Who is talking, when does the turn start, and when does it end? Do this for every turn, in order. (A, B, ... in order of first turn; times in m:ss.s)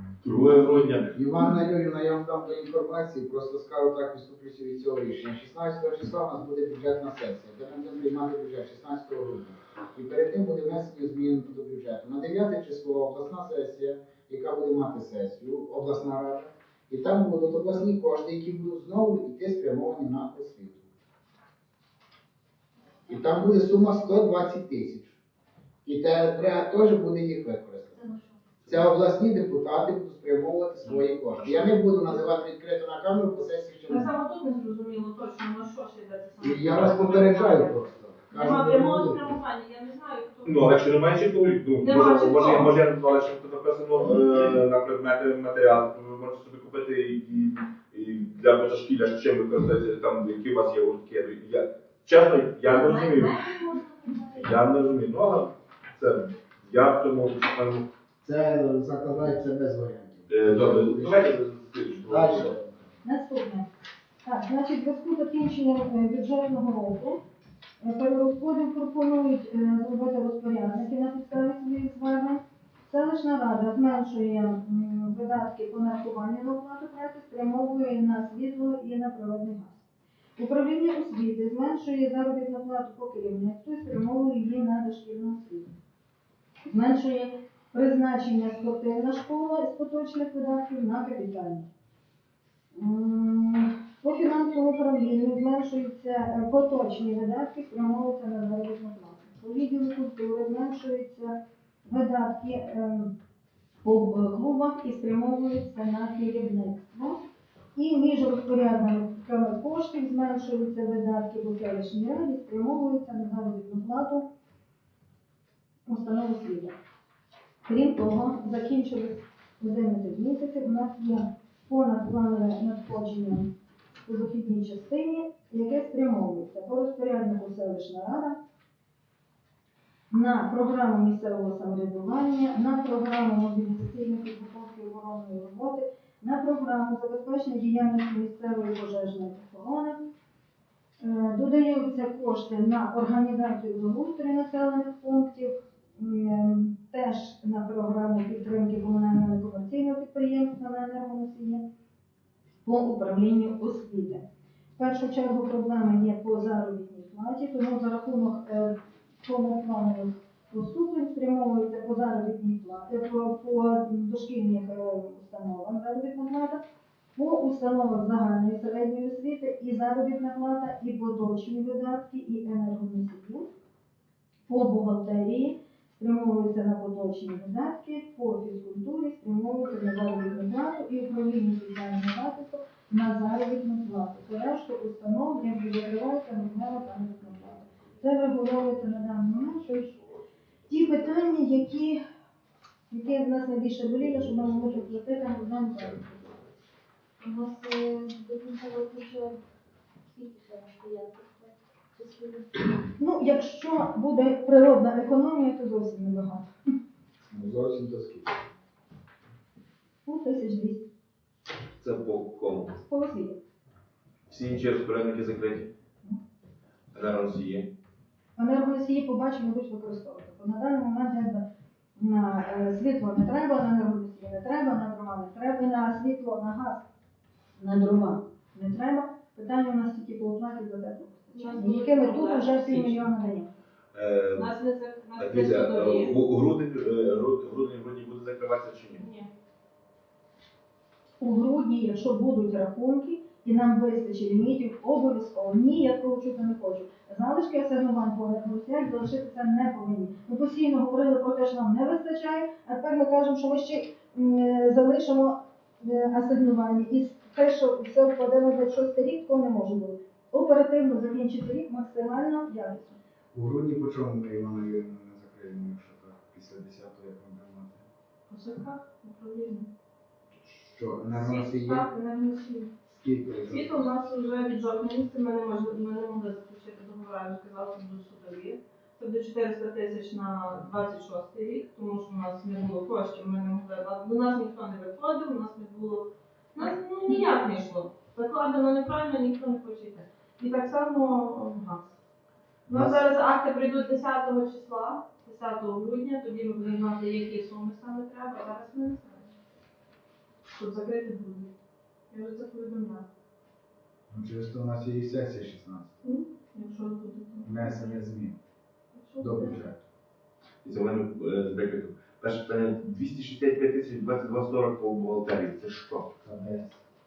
0:00.2-0:01.2 A
0:01.1-0:20.8 B
0:23.1-0:25.2 B
0:25.8-0:28.0 B
0:28.0-0:28.3 C
0:28.7-0:34.1 B
0:31.4-0:31.8 A
0:33.9-0:37.8 D
0:36.4-0:39.3 B
0:38.3-0:40.8 D
0:40.4-0:53.4 A
0:41.8-0:42.7 D
0:52.7-0:54.6 C
0:54.3-0:57.9 A
0:58.2-1:01.3 B
1:00.3-1:02.5 A
1:02.1-1:02.8 B
1:03.0-1:03.7 E
1:04.2-1:07.2 E
1:07.8-1:19.8 E
1:20.4-1:25.7 E
1:26.7-1:31.7 E
1:32.8-1:43.1 E
1:43.8-1:47.2 E
1:47.8-1:54.3 E
1:55.9-1:56.8 E
1:57.7-2:08.4 E
2:10.1-2:20.0 E
2:21.0-2:31.6 E
2:32.6-2:34.2 E
2:34.8-2:46.6 E
2:47.2-2:53.5 E
2:54.5-3:10.0 E
3:10.7-3:12.0 E
3:12.9-3:16.4 E
3:17.2-3:19.4 C
3:20.1-3:22.7 C
3:23.0-3:26.5 E
3:27.3-3:28.4 B
3:30.0-3:30.9 E
3:31.8-3:32.8 A
3:32.8-3:33.4 E
3:34.3-3:35.7 A
3:36.9-3:37.7 A
3:38.4-3:41.4 E
3:42.0-3:46.8 E
3:47.6-3:53.5 E
3:51.3-3:53.0 D
3:53.9-3:54.5 A
3:54.4-3:56.2 D
3:55.2-3:59.0 A
3:59.0-3:59.3 D
4:01.2-4:23.0 E
4:23.3-4:27.8 B
4:28.3-4:29.7 D
4:30.5-4:31.9 B
4:31.1-4:32.7 D
4:32.9-4:33.9 B
4:33.5-4:52.0 D
4:52.7-4:59.3 D
4:52.7-4:53.0 B
5:00.5-5:01.5 D
5:02.1-5:03.1 D
5:04.1-5:05.9 B
5:06.0-5:07.5 D
5:07.4-5:08.4 B
5:08.9-5:09.6 D
5:09.2-5:09.8 B
5:10.6-5:16.1 A
5:16.2-5:16.8 B